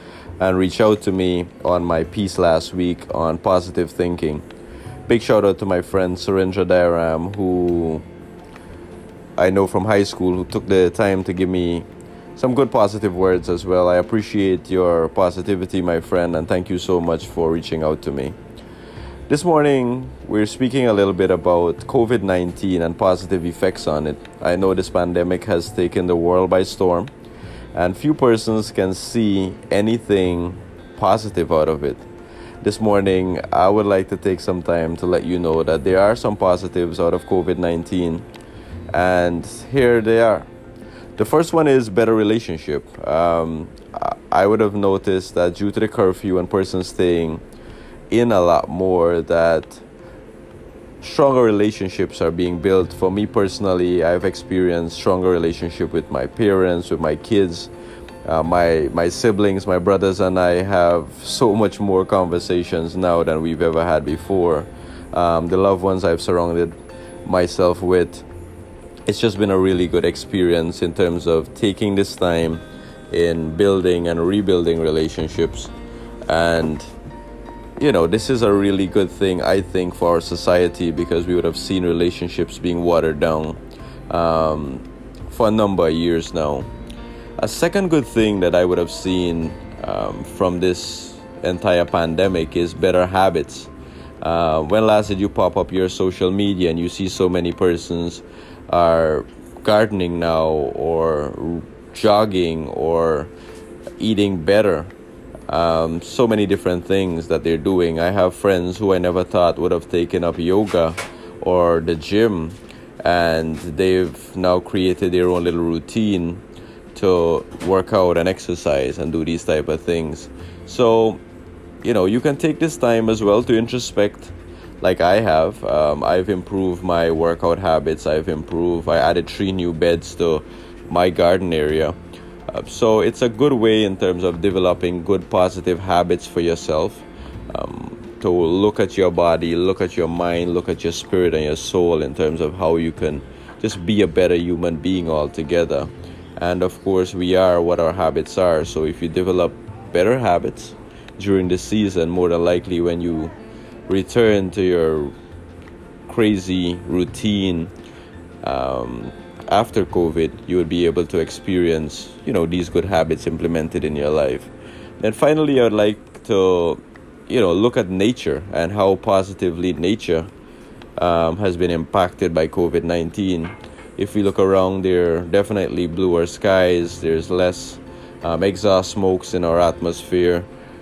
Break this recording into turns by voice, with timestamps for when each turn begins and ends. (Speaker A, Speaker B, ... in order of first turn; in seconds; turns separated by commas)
Speaker A: 0.4-4.5, Speaker A: 5.1-8.1, Speaker A: 9.4-18.4, Speaker A: 19.3-27.1, Speaker A: 27.7-32.1, Speaker A: 32.6-38.3, Speaker A: 38.9-40.5, Speaker A: 41.2-47.4, Speaker A: 48.1-49.8, Speaker A: 51.0-57.7, Speaker A: 58.2-68.3, Speaker A: 69.1-75.7, Speaker A: 76.3-76.9, Speaker A: 77.8-86.7, Speaker A: 87.4-103.3, Speaker A: 104.0-104.9, Speaker A: 105.5-116.4, Speaker A: 116.9-121.2, Speaker A: 121.8-132.0, Speaker A: 132.5-153.3, Speaker A: 153.9-155.1, Speaker A: 156.1-157.7, Speaker A: 158.4-170.3, Speaker A: 171.0-180.5